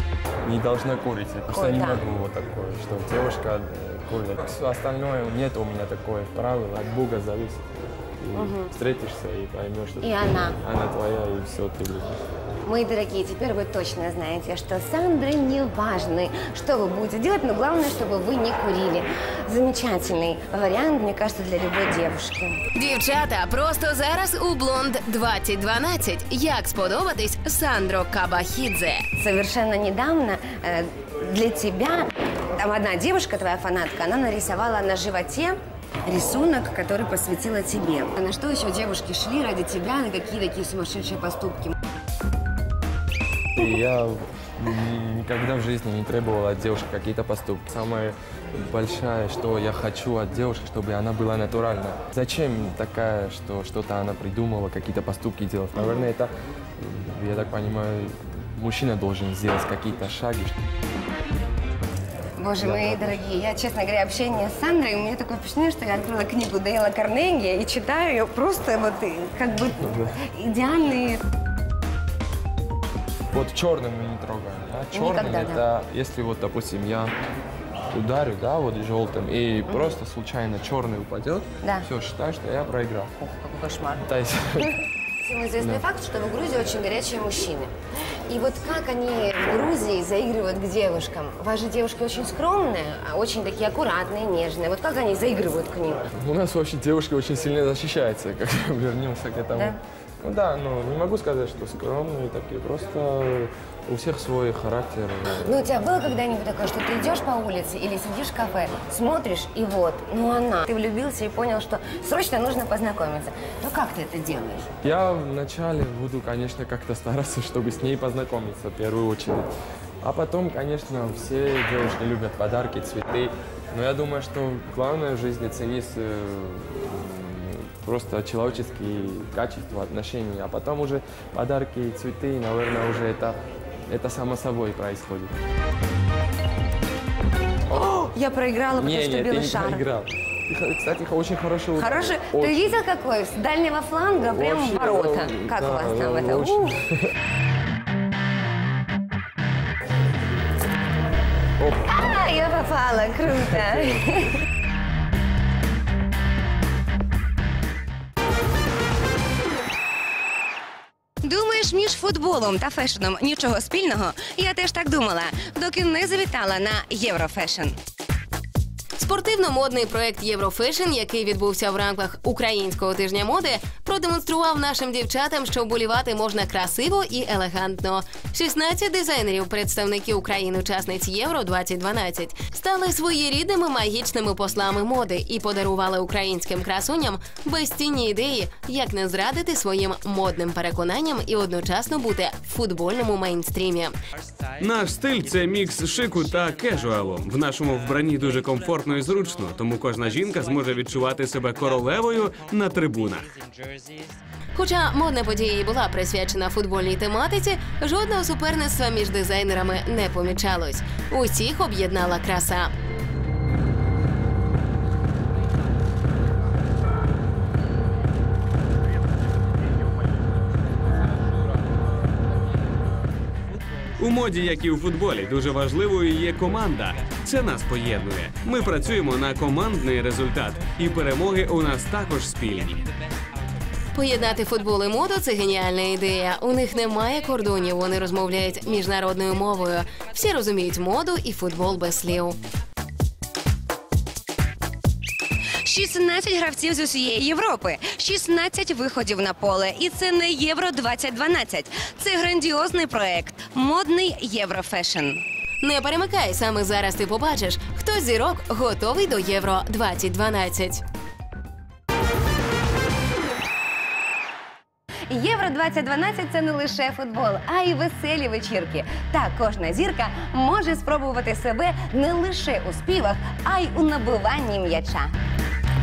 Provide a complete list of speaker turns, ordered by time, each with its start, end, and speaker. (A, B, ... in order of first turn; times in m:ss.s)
0:00.4-0:12.2 A
0:01.5-0:02.0 B
0:08.3-0:08.7 B
0:10.0-0:10.6 B
0:12.6-0:22.6 B
0:22.8-0:29.0 C
0:29.2-0:35.5 B
0:36.1-0:41.8 B
0:43.5-1:00.6 A
1:02.4-1:11.2 B
1:02.6-1:03.2 A
1:09.8-1:10.1 A
1:13.3-1:17.1 A
1:14.9-1:15.6 B
1:17.9-1:23.2 A
1:21.6-1:21.9 B
1:23.2-1:24.0 B
1:24.0-1:24.8 A
1:25.2-1:27.7 B
1:25.6-1:25.9 A
1:28.3-1:36.0 B
1:36.1-1:45.5 A
1:45.3-1:54.7 B
1:54.8-1:59.5 A
2:00.0-2:15.3 A
2:17.7-2:19.8 B
2:18.8-2:22.8 A
2:21.8-2:26.8 B
2:24.2-2:27.0 A
2:31.6-2:32.0 A
2:31.9-2:34.3 B
2:41.2-2:47.8 B
2:49.0-3:13.9 C
3:14.6-3:23.3 D
3:24.5-3:32.7 C
3:44.0-3:52.8 D
3:53.9-4:02.4 C
4:05.6-4:15.2 B
4:15.6-4:20.8 C
4:25.1-4:35.1 B